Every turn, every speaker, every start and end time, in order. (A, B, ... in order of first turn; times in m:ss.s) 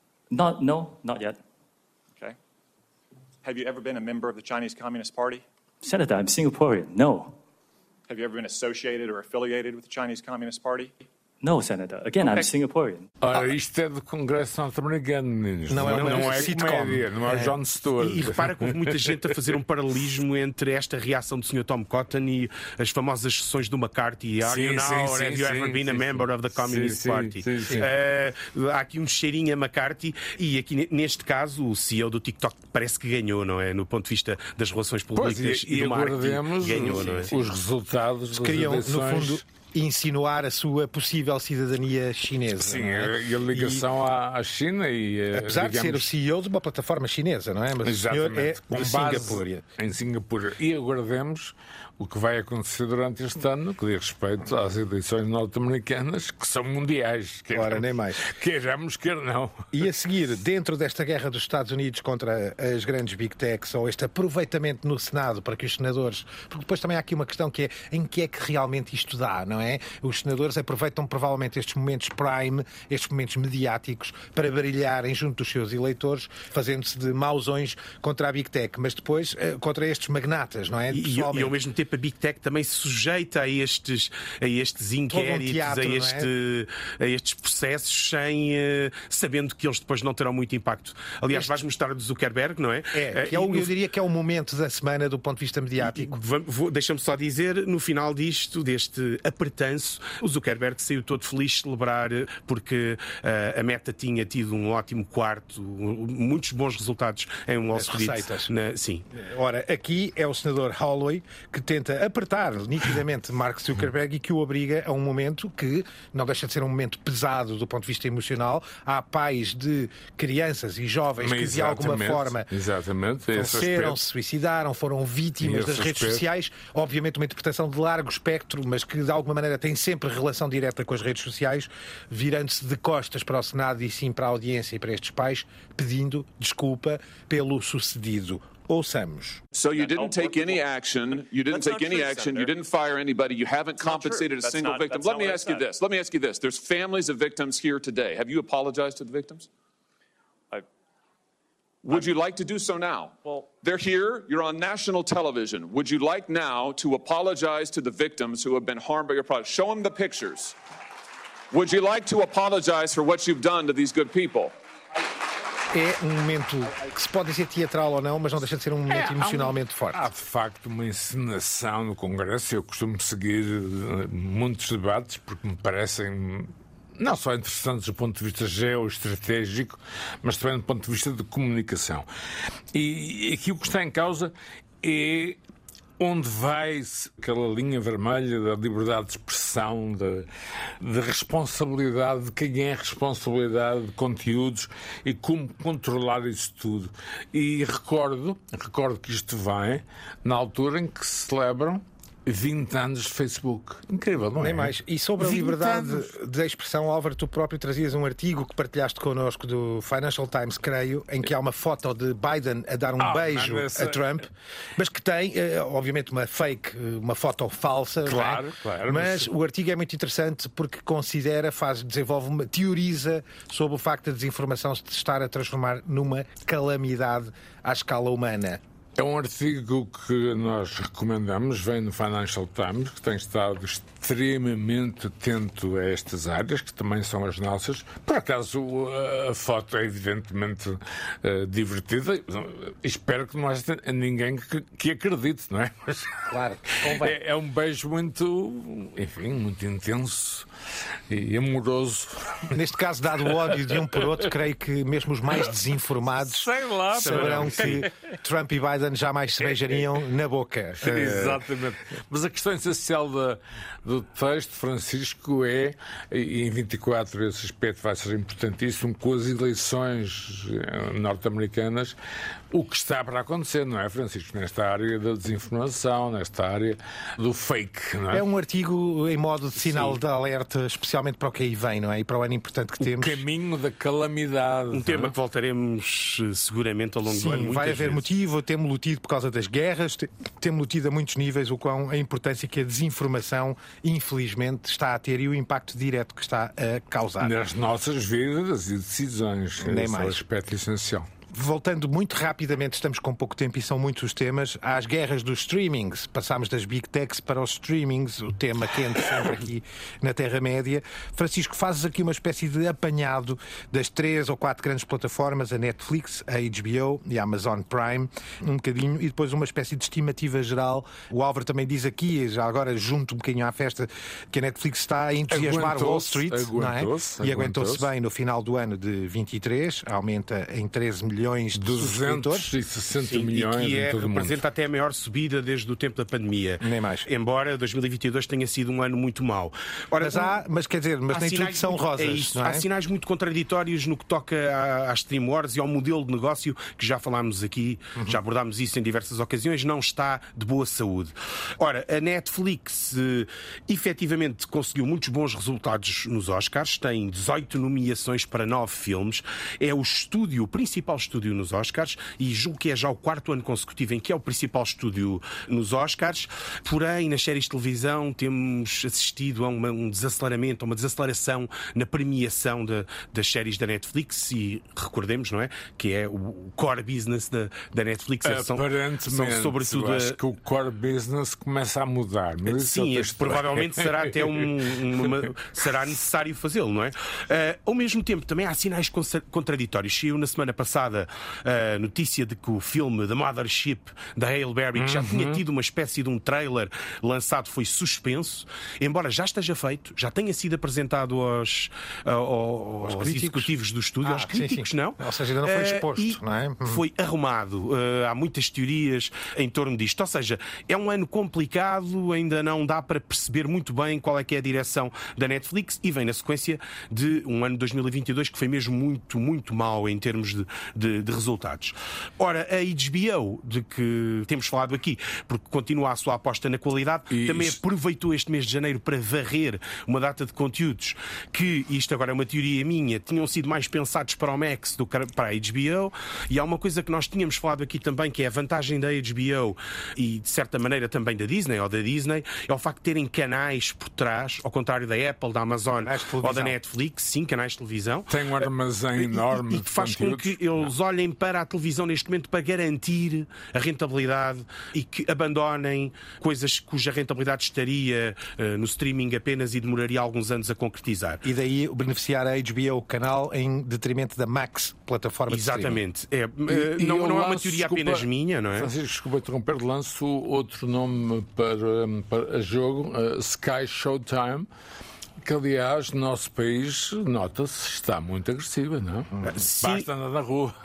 0:00.3-0:01.4 A
0:03.4-0:05.4 B
0:05.8-0:07.4 A
0:08.1-0:11.0 B
0:11.4-0:13.1 A
0:13.2-0:19.3 C
0:15.7-0:17.6 D
0:18.0-0:37.3 E
0:24.4-0:27.9 C
0:35.1-0:39.4 C
0:36.8-0:37.3 D
0:38.3-0:43.8 D
0:42.5-0:46.1 C
0:45.3-0:49.6 D
0:47.8-0:59.7 C
0:57.5-0:58.2 D
0:59.7-1:21.5 D
1:20.9-1:33.7 E
1:25.1-1:26.3 D
1:32.9-1:36.2 D
1:35.8-1:49.0 E
1:47.7-1:48.5 D
1:49.1-2:02.5 D
2:01.2-2:04.0 C
2:03.3-2:19.4 D
2:05.4-2:06.2 C
2:19.5-2:29.5 F
2:19.6-2:22.6 B
2:23.8-2:25.7 B
2:31.8-2:40.6 F
2:31.9-2:32.2 B
2:41.5-2:44.5 F
2:45.7-2:50.0 D
2:48.9-3:02.1 C
3:02.7-3:05.4 C
3:06.0-3:10.3 C
3:10.8-3:26.1 C
3:24.4-3:48.6 D
3:33.0-3:34.1 C
3:38.0-3:39.3 C
3:49.0-4:06.3 C
4:06.3-4:07.2 D
4:06.9-4:10.5 C
4:11.1-4:12.5 C
4:12.5-4:21.4 D
4:16.2-4:17.9 C
4:17.0-4:17.8 E
4:20.8-4:32.0 C
4:32.5-4:38.2 C
4:38.1-4:43.2 D
4:39.6-4:40.0 C
4:42.8-4:45.1 C
4:44.7-4:48.0 E
4:47.1-4:57.3 D
4:57.2-5:01.1 C
4:59.6-5:00.2 D
5:01.3-5:32.5 D
5:25.3-5:27.9 C
5:31.5-5:34.4 C
5:33.1-5:40.4 E
5:36.6-5:37.0 D
5:40.0-5:42.6 D
5:41.1-6:20.2 E
6:18.2-6:24.5 C
6:22.4-7:28.2 E
6:25.0-6:25.3 C
6:34.8-6:35.4 C
6:42.8-6:43.5 D
6:44.0-6:46.8 D
7:07.1-7:07.6 C
7:25.8-7:26.5 D
7:28.1-7:30.7 C
7:29.0-7:41.2 E
7:41.2-7:45.8 D
7:45.3-7:48.7 E
7:46.5-7:54.5 C
7:55.2-8:00.5 C
7:59.2-7:59.9 E